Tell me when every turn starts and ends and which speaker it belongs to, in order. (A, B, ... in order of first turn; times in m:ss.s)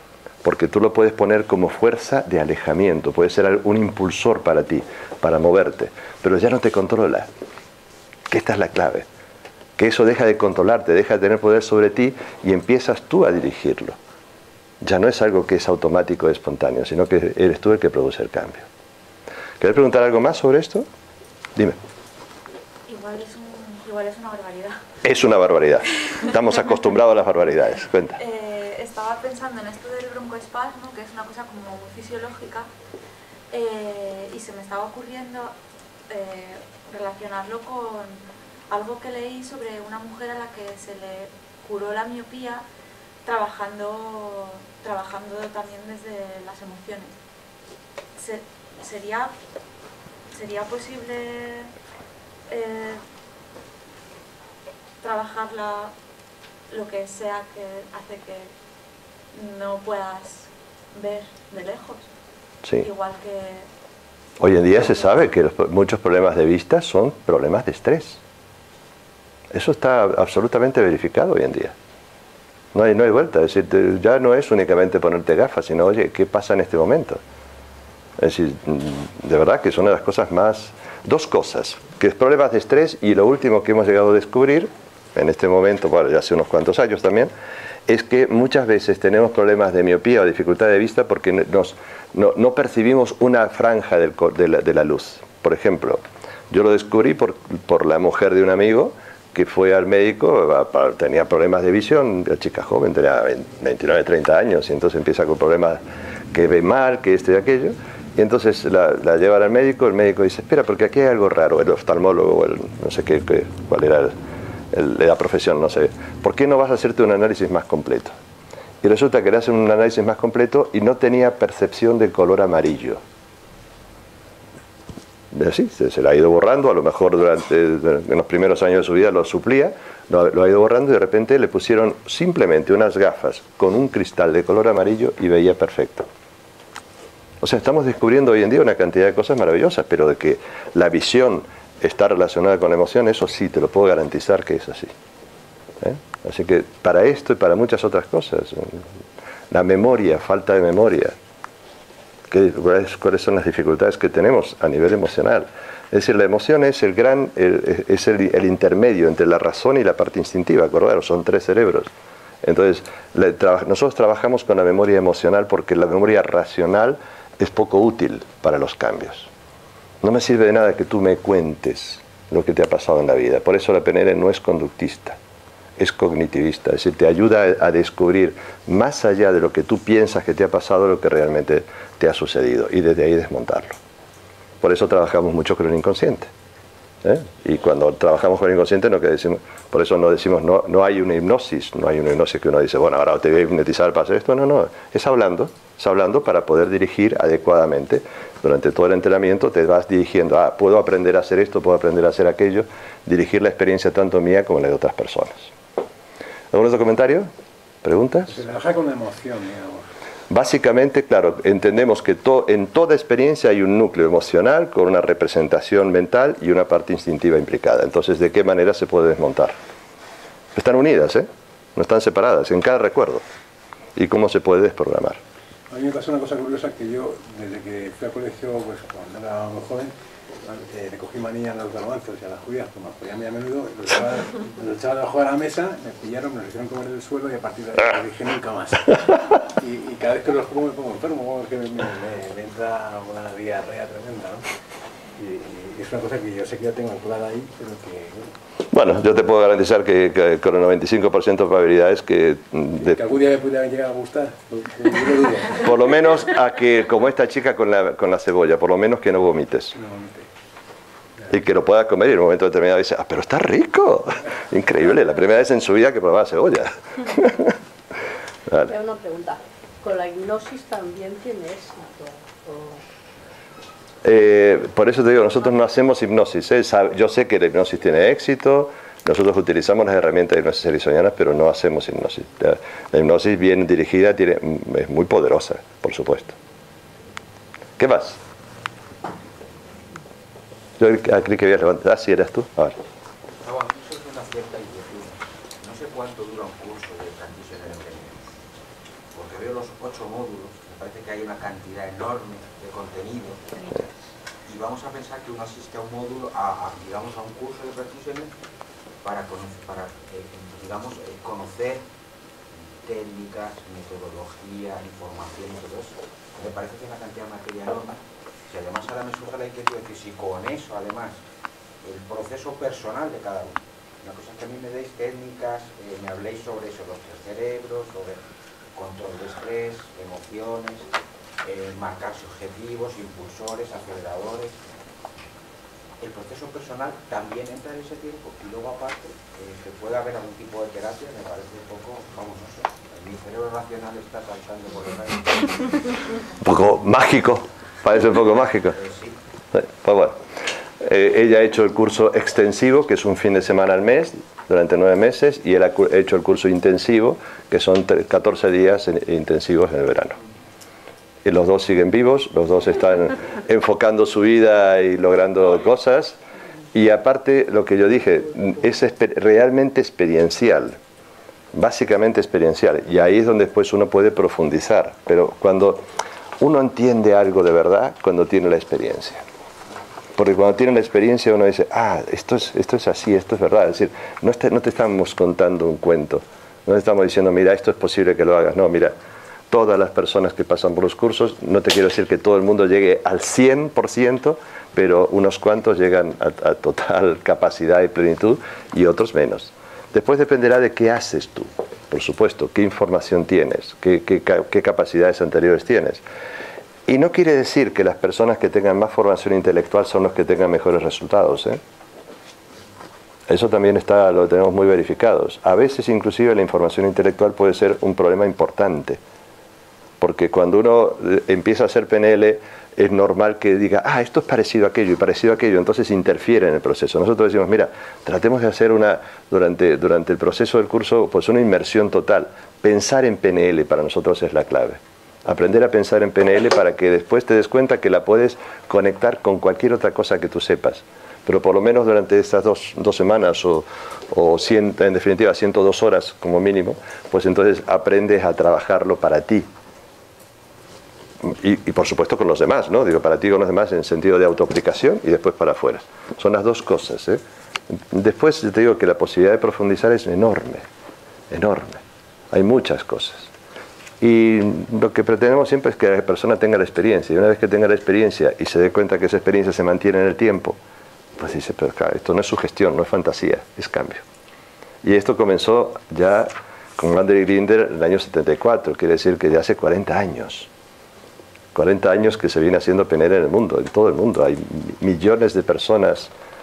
0:00.4-0:07.3 A
0:08.3-0:09.1 A
0:09.8-0:14.0 A
0:14.8-0:18.6 A
0:19.6-0:20.9 A
0:22.9-0:24.8 B
0:25.0-0:28.2 A
0:28.2-0:32.7 B
0:33.5-0:35.5 B
0:36.1-0:42.6 B
0:43.2-0:47.1 B
0:48.2-0:49.3 B
0:50.3-0:51.7 B
0:52.5-0:53.0 B
0:55.0-0:55.9 B
0:56.7-0:58.5 B
0:59.3-1:02.0 B
1:02.8-1:03.7 B
1:04.4-1:08.2 A
1:09.5-1:11.7 A
1:12.7-1:17.2 A
1:18.2-1:27.3 A
1:27.9-1:45.8 A
1:46.3-1:54.2 A
1:54.7-1:58.1 A
1:58.8-2:03.0 A
2:05.3-2:16.1 A
2:17.4-2:24.9 A
2:25.8-2:28.8 A
2:29.5-2:31.1 A
2:32.3-2:41.9 A
2:42.4-2:49.3 A
2:50.0-2:55.2 A
2:55.8-3:03.8 A
3:04.6-3:06.3 A
3:07.0-3:25.5 A
3:26.5-3:27.3 A
3:27.8-3:28.4 A
3:28.3-3:29.8 C
3:30.3-3:39.5 A
3:40.5-3:43.2 A
3:44.0-3:45.2 A
3:45.7-4:04.5 C
4:05.2-4:08.3 C
4:08.7-4:13.0 A
4:12.8-4:15.7 C
4:15.6-4:19.7 A
4:19.7-4:20.3 C
4:21.3-4:27.6 A
4:28.5-4:28.7 A
4:28.6-4:32.8 D
4:34.0-4:46.3 A
4:47.8-4:48.2 A
4:50.8-4:52.8 A
4:53.4-4:58.3 E
4:59.1-5:03.6 E
5:04.4-5:08.3 E
5:09.0-5:11.8 E
5:12.5-5:21.2 E
5:21.8-5:28.2 E
5:28.7-5:30.9 E
5:31.4-5:34.6 E
5:36.0-5:45.9 E
5:46.4-5:48.8 A
5:48.7-5:49.2 E
5:49.5-5:50.2 A
5:50.8-6:00.2 A
6:01.2-6:06.2 A
6:06.7-6:10.8 A
6:11.5-6:15.8 A
6:16.4-6:19.2 A
6:20.2-6:28.9 A
6:29.5-6:46.0 A
6:46.9-6:51.6 A
6:53.3-6:59.0 A
7:00.0-7:29.5 A
7:31.2-7:37.2 A
7:37.9-7:40.6 A
7:41.3-7:43.3 A
7:44.0-7:50.6 A
7:51.2-7:54.0 A
7:54.8-8:00.5 A
8:01.5-8:06.1 A